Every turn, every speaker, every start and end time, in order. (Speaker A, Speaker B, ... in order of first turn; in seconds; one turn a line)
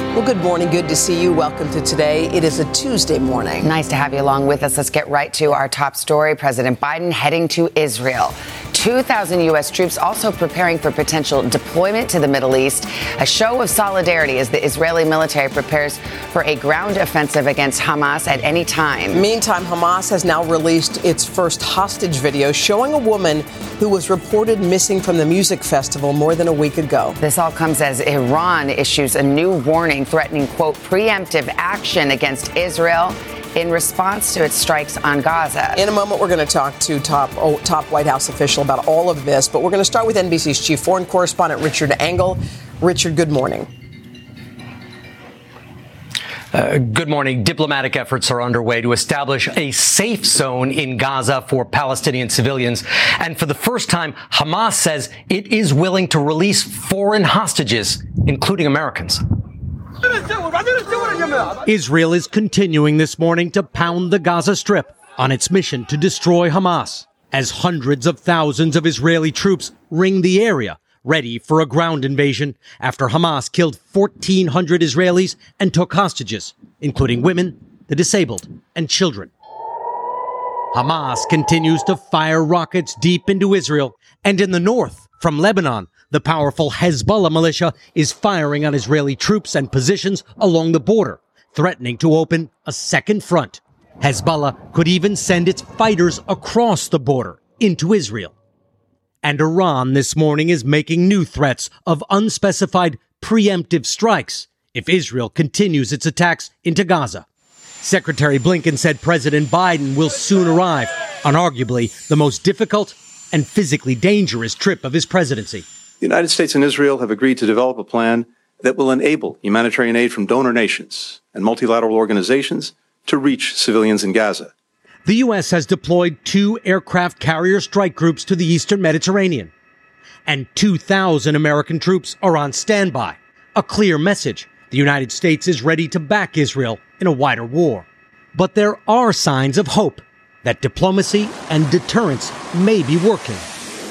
Speaker A: 0.1-3.7
Speaker B: 3.6-19.2
Speaker A: 19.1-27.2
Speaker B: 27.2-35.8
Speaker A: 35.8-43.7
Speaker C: 46.5-59.2
Speaker D: 61.6-79.3
Speaker D: 80.7-98.3
Speaker D: 99.2-107.2
Speaker D: 107.8-115.7
Speaker E: 116.0-124.5
Speaker D: 125.1-129.5
Speaker D: 130.3-143.5